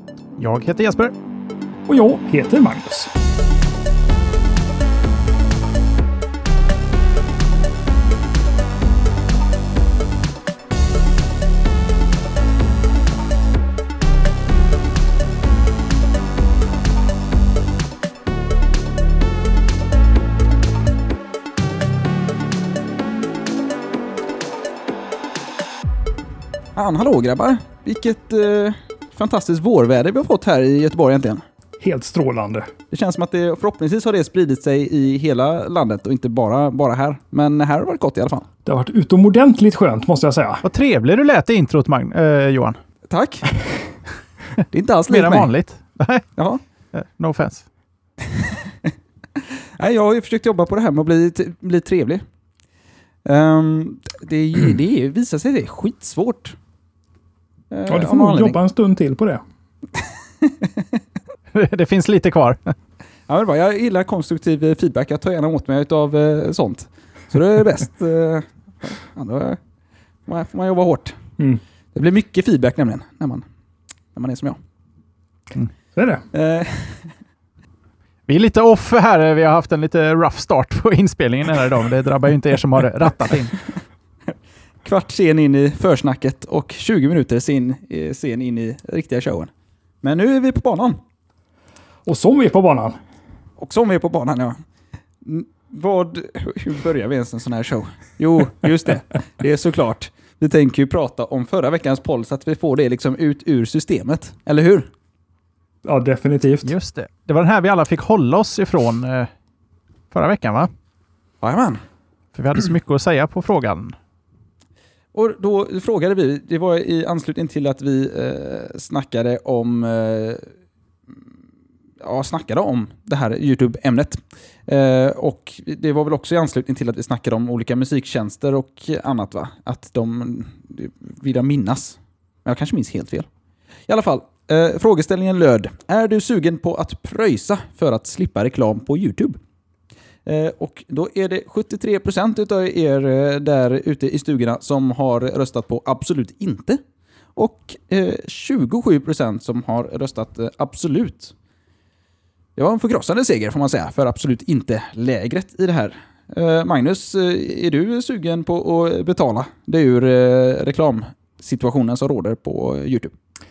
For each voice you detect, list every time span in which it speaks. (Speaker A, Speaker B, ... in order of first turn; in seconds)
Speaker A: 0.4-1.1, 40.6-42.8, 45.1-46.3, 46.9-47.6, 61.5-62.8, 78.3-83.5, 106.6-109.3, 110.1-110.7, 112.3-113.9
Speaker B: 1.9-3.1, 31.8-32.7, 38.6-40.6, 57.9-59.4, 75.9-76.2, 92.0-93.0, 105.8-106.7
Speaker C: 26.7-31.4, 32.9-38.5, 43.1-43.5, 44.7-45.5, 46.4-46.6, 48.3-48.9, 49.8-52.2, 53.2-56.5, 57.7-58.6, 60.4-61.0, 63.3-69.6, 70.3-71.2, 71.9-73.4, 74.1-74.6, 76.3-77.1, 84.8-89.5, 90.0-91.0, 93.6-94.6, 95.2-104.9, 111.4-111.8, 115.1-120.5, 122.0-133.3, 133.9-139.4, 140.2-146.8, 147.3-151.3, 152.6-163.1